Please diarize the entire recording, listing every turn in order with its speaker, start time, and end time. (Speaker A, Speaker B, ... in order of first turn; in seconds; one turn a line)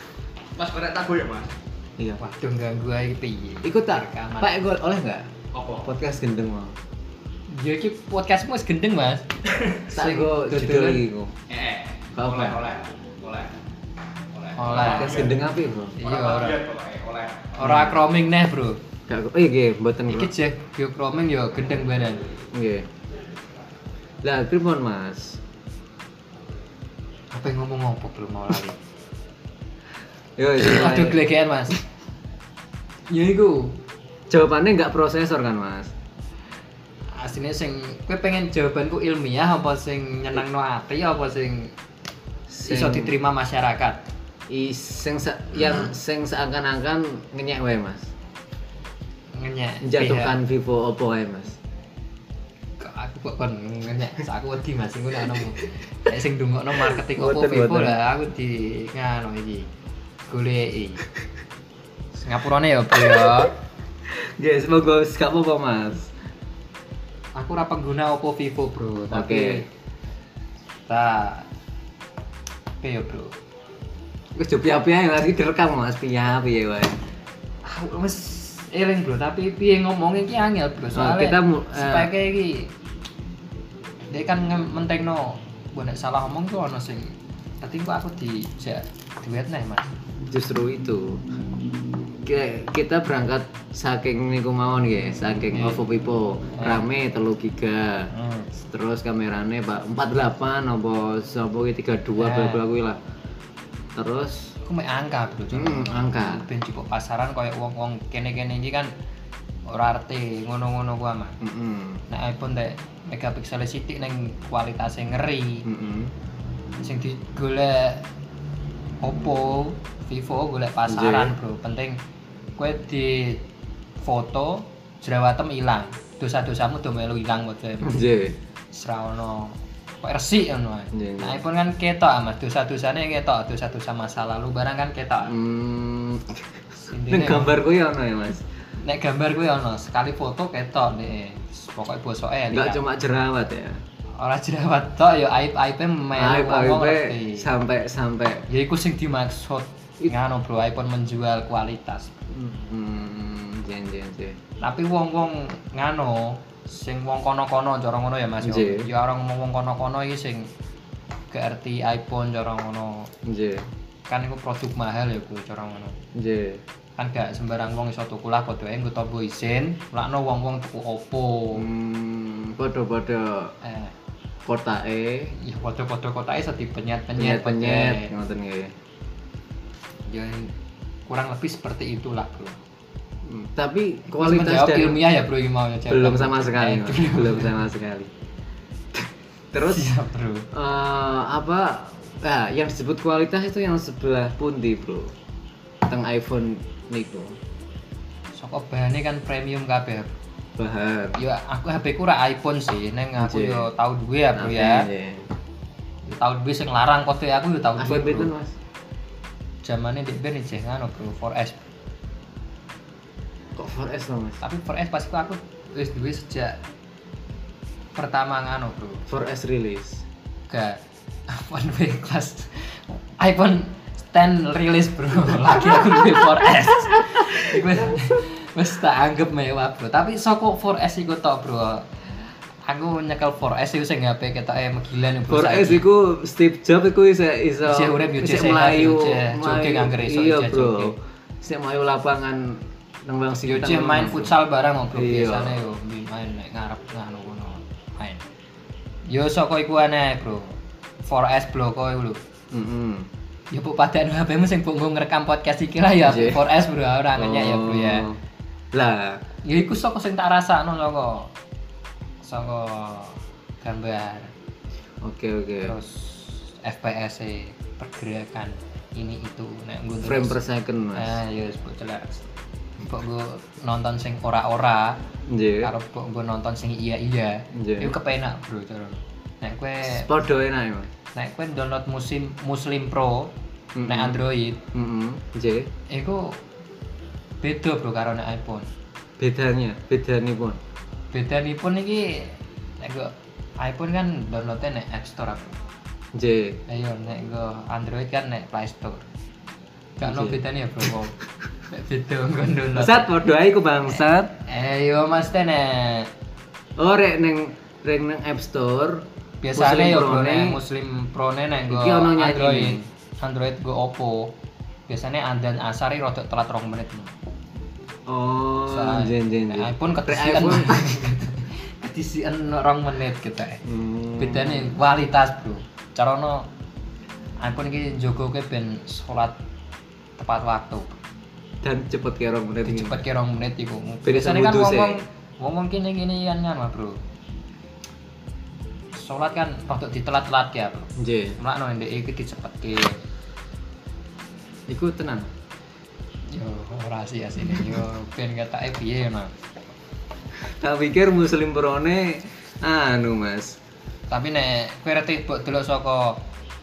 Speaker A: 0.6-1.5
Speaker B: 2.2-4.5
Speaker C: 3.6-5.3
Speaker A: 5.5-5.9
Speaker C: 5.8-6.8
Speaker B: 7.5-9.2
Speaker B: 9.9-11.0
Speaker C: 9.9-11.3
Speaker A: 11.5-13.5
Speaker C: 12.1-12.6
Speaker A: 14.3-15.4
Speaker B: 14.6-15.3
Speaker C: 14.7-15.9
Speaker A: 15.9-17.6
Speaker B: 16.0-16.6
Speaker B: 17.6-18.8
Speaker C: 17.6-18.0
Speaker C: 19.1-20.3
Speaker B: 20.1-22.3
Speaker C: 22.5-22.9
Speaker C: 24.2-25.4
Speaker B: 27.3-28.8
Speaker C: 30.4-31.3
Speaker B: 30.6-31.8
Speaker B: 33.1-33.8
Speaker C: 34.3-35.9
Speaker B: 37.1-41.7
Speaker C: 42.5-43.1
Speaker B: 42.6-44.0
Speaker C: 44.5-48.1
Speaker B: 49.3-50.4
Speaker C: 49.8-51.6
Speaker B: 52.8-59.7
Speaker C: 56.8-58.0
Speaker B: 60.3-61.0
Speaker B: 62.2-63.5
Speaker C: 63.2-63.5
Speaker C: 64.1-66.1
Speaker B: 67.3-69.7
Speaker C: 69.1-69.6
Speaker B: 70.9-71.5
Speaker B: 72.8-73.3
Speaker C: 74.3-77.0
Speaker B: 77.6-82.7
Speaker C: 80.9-82.1
Speaker B: 84.1-89.8
Speaker C: 90.3-91.2
Speaker C: 92.2-103.0
Speaker B: 95.5-95.8
Speaker B: 96.6-96.8
Speaker B: 98.1-98.5
Speaker B: 102.2-102.6
Speaker C: 103.9-104.5
Speaker B: 104.6-108.9
Speaker C: 105.5-106.4
Speaker B: 109.7-111.4
Speaker C: 111.4-112.0
Speaker B: 112.1-115.7
Speaker C: 115.7-116.1
Speaker B: 116.8-118.0
Speaker B: 119.0-122.0
Speaker C: 120.9-121.3
Speaker B: 122.6-123.4
Speaker B: 124.0-128.1
Speaker C: 127.8-128.4
Speaker B: 128.7-135.3
Speaker C: 130.9-131.4
Speaker C: 135.2-136.5
Speaker B: 136.8-137.6
Speaker C: 137.1-138.4
Speaker B: 138.8-142.8
Speaker C: 142.5-143.8
Speaker B: 144.2-147.4
Speaker C: 146.2-148.4
Speaker B: 148.5-152.1
Speaker C: 152.3-154.4
Speaker B: 154.6-160.5
Speaker C: 158.4-158.9
Speaker B: 161.3-163.1
Speaker C: 163.2-163.7
Speaker B: 164.1-165.9
Speaker C: 166.1-166.6
Speaker B: 167.0-171.7
Speaker C: 171.5-173.5
Speaker B: 173.6-173.9
Speaker C: 174.4-175.3
Speaker B: 175.4-178.1
Speaker C: 177.2-178.8
Speaker B: 180.1-180.5
Speaker B: 181.1-182.6
Speaker C: 183.2-185.0
Speaker B: 184.1-187.6
Speaker C: 185.9-188.1
Speaker C: 188.9-189.9
Speaker B: 189.6-190.5
Speaker C: 190.5-195.1
Speaker C: 195.8-197.4
Speaker B: 198.3-200.1
Speaker C: 200.6-201.2
Speaker B: 201.2-204.9
Speaker C: 203.2-203.7
Speaker C: 204.3-205.3
Speaker B: 206.1-208.3
Speaker C: 207.8-208.5
Speaker B: 209.6-211.6
Speaker C: 213.6-214.4
Speaker B: 214.4-216.6
Speaker B: 217.9-219.1
Speaker C: 219.1-220.0
Speaker B: 220.5-232.0
Speaker B: 232.7-235.8
Speaker C: 235.3-244.3
Speaker B: 237.6-240.9
Speaker B: 243.4-248.2
Speaker C: 244.9-245.6
Speaker B: 249.1-250.5
Speaker B: 251.0-252.2
Speaker C: 252.5-253.1
Speaker B: 253.5-258.1
Speaker C: 256.0-256.5
Speaker C: 257.1-258.2
Speaker C: 258.7-259.2
Speaker B: 259.4-261.3
Speaker B: 262.2-264.3
Speaker C: 265.0-265.8
Speaker B: 265.6-270.4
Speaker C: 270.0-271.2
Speaker B: 270.9-272.3
Speaker B: 272.8-275.0
Speaker C: 275.3-275.7
Speaker B: 275.6-280.1
Speaker C: 277.5-277.9
Speaker C: 279.8-280.9
Speaker B: 281.1-283.3
Speaker C: 283.7-285.7
Speaker B: 283.8-284.6
Speaker B: 285.9-286.4
Speaker B: 287.4-288.6
Speaker C: 289.2-290.6
Speaker B: 291.1-295.6
Speaker C: 296.1-296.6
Speaker B: 296.7-299.0
Speaker B: 300.0-301.1
Speaker C: 300.0-300.9
Speaker B: 301.7-303.1
Speaker C: 302.7-304.3
Speaker B: 304.4-306.1
Speaker C: 306.8-310.6
Speaker B: 309.4-314.3
Speaker C: 311.7-312.9
Speaker B: 314.9-317.1
Speaker C: 318.1-320.9
Speaker B: 318.7-323.6
Speaker C: 323.6-324.7
Speaker B: 324.2-326.5
Speaker B: 327.4-329.4
Speaker B: 330.2-331.0
Speaker C: 331.6-333.0
Speaker B: 332.6-337.0
Speaker C: 334.0-335.0
Speaker B: 338.9-343.0
Speaker C: 340.9-341.4
Speaker C: 344.7-345.3
Speaker B: 346.3-349.3
Speaker C: 350.4-353.6
Speaker B: 354.1-356.2